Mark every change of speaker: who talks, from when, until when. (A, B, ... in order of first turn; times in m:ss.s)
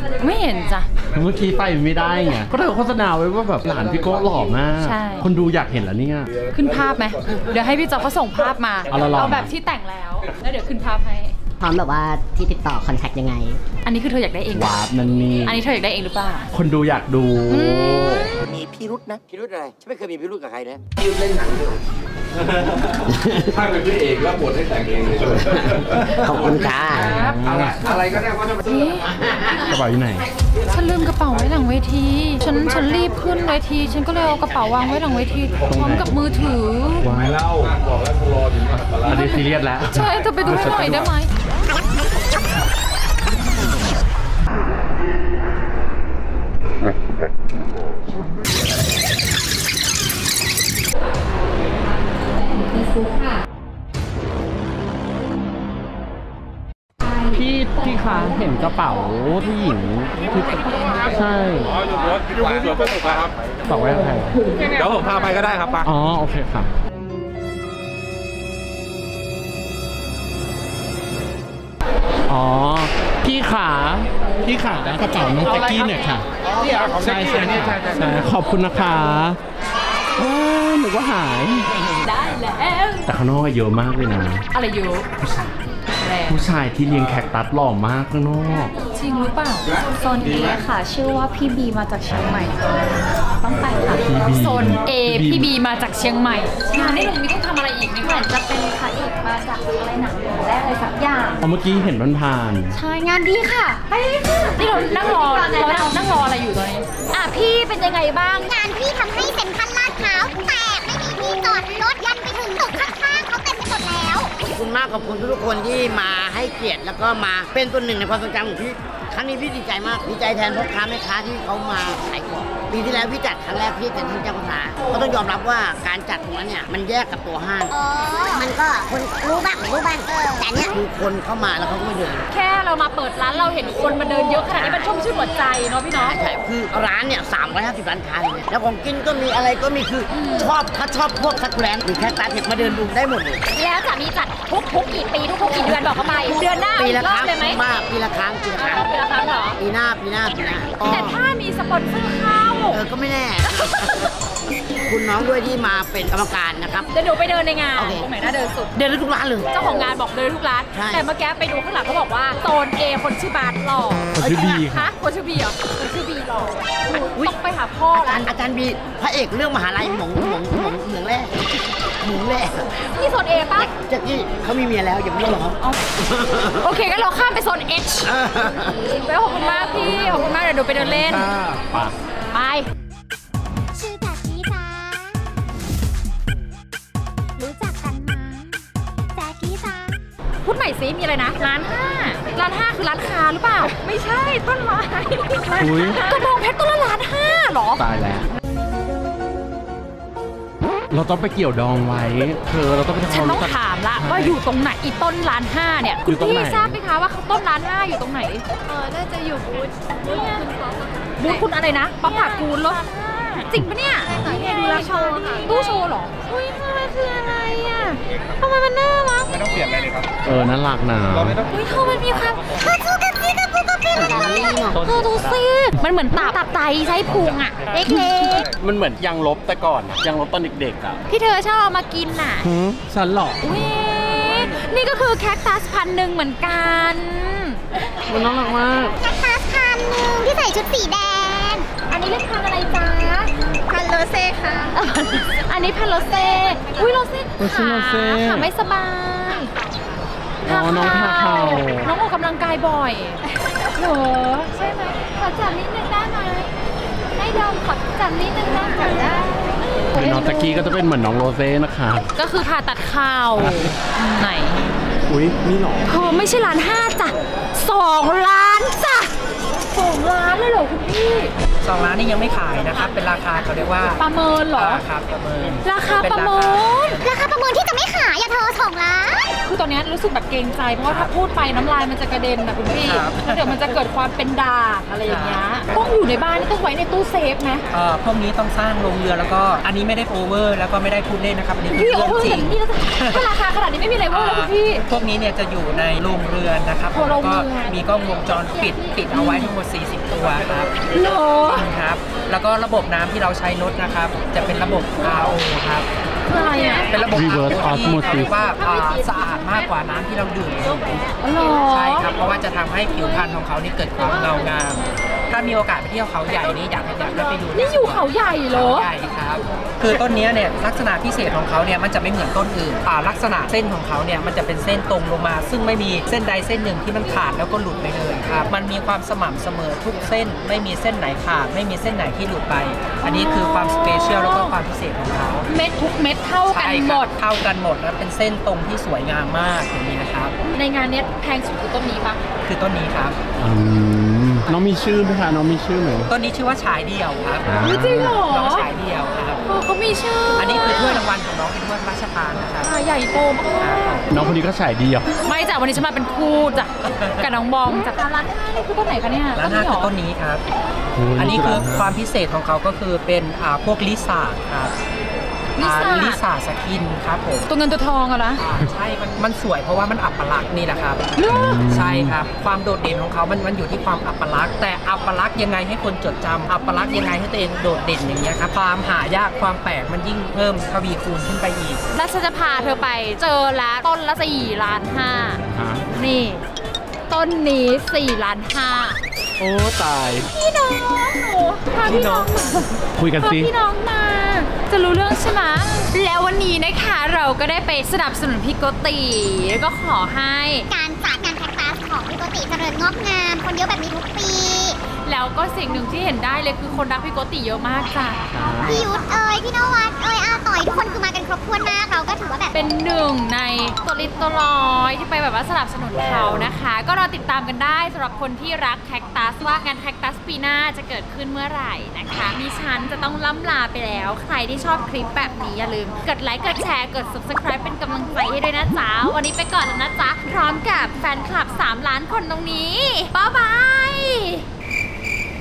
0:00.2-0:00.9 A
0:01.1-0:06.4 B
0:04.8-0:05.3 A
0:06.5-0:11.4 A
0:08.9-0:09.5 B
0:11.6-0:13.6 C
0:13.8-0:14.8 A
0:14.5-0:15.6 B
0:15.4-0:16.5 A
0:16.5-0:18.3 B
0:17.5-0:18.4 A
0:19.3-0:20.8 D
0:21.0-0:21.6 E
0:22.6-0:22.9 E
0:23.4-0:26.7 E
0:26.1-0:27.1 D
0:26.8-0:27.9 B
0:27.1-0:27.4 A
0:27.8-0:28.2 E
0:28.6-0:29.2 A
0:29.6-0:30.3 B
0:30.7-0:37.1 A
0:35.7-0:36.3 B
0:37.0-0:37.4 B
0:37.2-0:39.4 E
0:38.7-0:41.1 B
0:39.9-0:41.3 A
0:57.3-1:01.8 B
1:03.7-1:04.4 B
1:05.8-1:06.7 B
1:12.3-1:19.4 B
1:20.2-1:21.7 B
1:22.0-1:23.1 A
1:23.1-1:24.4 B
1:24.5-1:25.1 A
1:25.2-1:25.6 B
1:26.0-1:26.4 A
1:26.3-1:28.8 B
1:28.9-1:29.7 A
1:30.0-1:32.8 F
1:33.4-1:38.3 A
1:33.9-1:35.5 B
1:38.1-1:41.3 F
1:41.4-1:42.8 B
1:42.8-1:43.2 A
1:43.9-1:48.6 A
1:45.4-1:45.8 F
1:48.5-1:54.3 G
1:54.5-2:07.8 D
2:07.7-2:08.5 G
2:08.3-2:12.2 D
2:09.3-2:10.7 G
2:12.3-2:16.2 A
2:14.6-2:14.9 D
2:16.0-2:23.4 D
2:20.1-2:20.5 A
2:23.5-2:27.6 A
2:26.8-2:28.8 D
2:28.6-2:29.6 A
2:29.6-2:31.2 D
2:30.8-2:32.8 A
2:32.7-2:33.9 D
2:33.4-2:34.1 A
2:34.8-2:36.9 D
2:36.8-2:38.7 A
2:37.8-2:38.0 D
2:38.8-2:39.5 D
2:39.5-2:48.3 A
2:40.7-2:41.0 D
2:44.2-2:44.9 B
2:48.0-2:51.3 D
2:52.0-2:52.6 D
2:52.8-2:53.7 A
2:53.6-2:55.6 D
2:56.4-2:58.1 A
2:58.0-2:58.8 D
2:58.8-3:01.3 A
3:00.8-3:02.0 B
3:02.3-3:02.7 A
3:03.7-3:05.3 G
3:07.4-3:08.6 A
3:09.2-3:09.9 G
3:10.4-3:17.8 A
3:15.6-3:16.0 B
3:17.8-3:18.3 B
3:20.9-3:24.4 B
3:23.1-3:30.5 A
3:26.1-3:26.8 B
3:31.2-3:39.5 A
3:40.2-3:41.4 B
3:41.5-3:42.5 A
3:42.6-3:44.8 G
3:44.0-3:44.8 C
3:44.8-3:48.5 A
3:48.6-3:51.0 B
3:51.1-3:52.5 A
3:52.4-3:53.4 B
3:53.4-3:57.6 A
3:58.1-3:59.0 B
3:59.0-4:01.7 G
4:01.9-4:03.3 A
4:03.9-4:09.5 A
4:07.4-4:08.5 B
4:10.4-4:11.9 B
4:10.5-4:13.2 A
4:13.7-4:16.5 A
4:17.2-4:20.6 A
4:20.0-4:22.1 B
4:22.2-4:24.6 A
4:23.4-4:23.7 B
4:25.1-4:25.8 B
4:25.9-4:31.3 A
4:31.6-4:34.0 H
4:34.0-4:34.8 A
4:34.5-4:37.1 H
4:35.6-4:37.0 A
4:37.0-4:39.3 G
4:39.4-4:47.6 A
4:40.8-4:41.1 H
4:42.8-4:43.6 H
4:45.0-4:45.4 H
4:47.7-4:53.2 H
4:51.7-4:54.8 A
4:54.1-5:00.8 H
4:56.9-4:57.8 A
4:58.5-4:59.5 A
5:00.9-5:01.7 A
5:01.5-5:05.9 H
5:06.3-5:07.0 A
5:06.7-5:11.0 H
5:07.1-5:08.4 B
5:08.3-5:09.7 A
5:11.2-5:12.1 A
5:11.6-5:35.5 H
5:17.5-5:18.9 A
5:33.0-5:34.6 A
5:35.5-5:37.1 A
5:36.5-5:40.4 H
5:40.5-5:42.2 A
5:42.4-5:43.2 H
5:43.4-5:46.1 B
5:46.1-5:49.4 H
5:47.5-5:48.2 B
5:47.6-5:48.6 A
5:49.4-5:51.0 A
5:50.4-5:52.7 H
5:52.6-5:54.2 A
5:53.6-5:54.1 H
5:54.1-5:55.1 B
5:55.2-5:59.9 A
5:59.3-6:00.4 H
6:01.0-6:02.0 B
6:01.1-6:04.8 H
6:05.6-6:06.2 A
6:05.6-6:07.5 H
6:07.5-6:08.4 A
6:08.4-6:21.8 H
6:11.2-6:11.6 A
6:11.3-6:12.2 B
6:16.6-6:17.2 A
6:21.9-6:25.4 A
6:25.5-6:25.9 B
6:26.0-6:26.4 A
6:27.1-6:29.0 A
6:29.4-6:30.3 B
6:30.2-6:40.7 A
6:31.8-6:32.3 B
6:33.0-6:33.5 B
6:40.7-6:44.8 G
6:45.0-6:48.3 A
6:48.3-6:48.8 B
6:48.6-6:52.5 G
6:52.5-7:14.4 A